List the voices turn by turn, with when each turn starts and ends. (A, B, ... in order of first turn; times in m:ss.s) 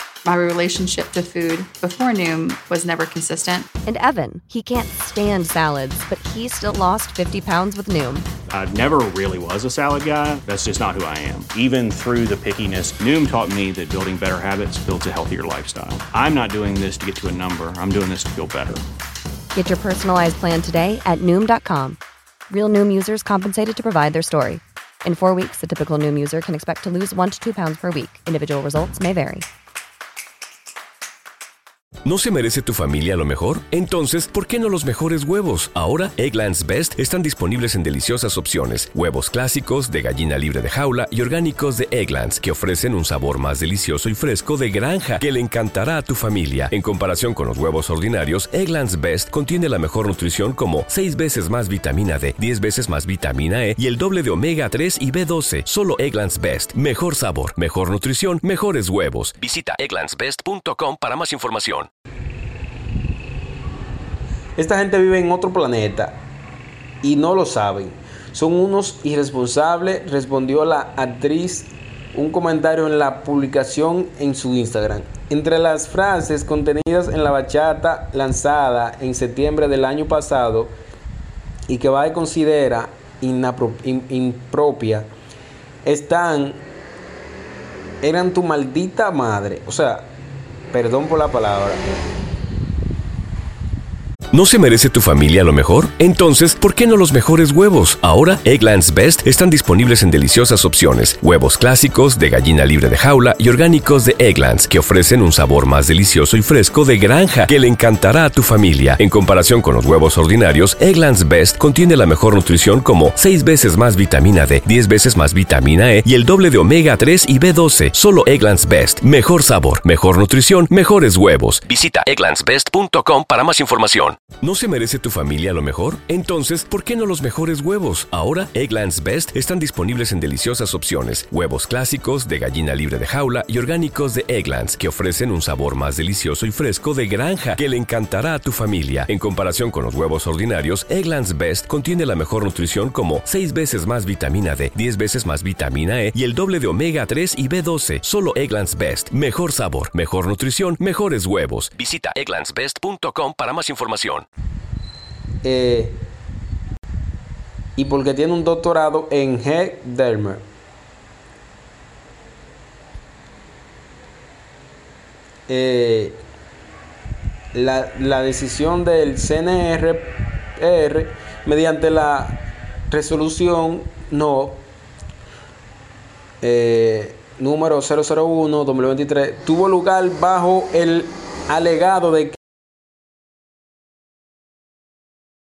0:00.2-0:03.7 A
0:03.8-0:08.2 B
0:08.5-0:18.8 C
0:19.5-0:29.4 B
0:32.0-1:01.9 D
1:04.6-1:06.2 E
1:07.0-1:20.7 E
1:21.7-1:25.1 E
1:25.8-1:26.6 E
1:28.0-1:30.1 E
1:30.7-1:31.9 E
1:34.3-2:34.2 D
2:35.4-2:36.0 E
2:37.8-2:40.4 E
2:45.5-2:46.2 E
2:47.5-2:54.6 E
2:56.4-3:02.4 E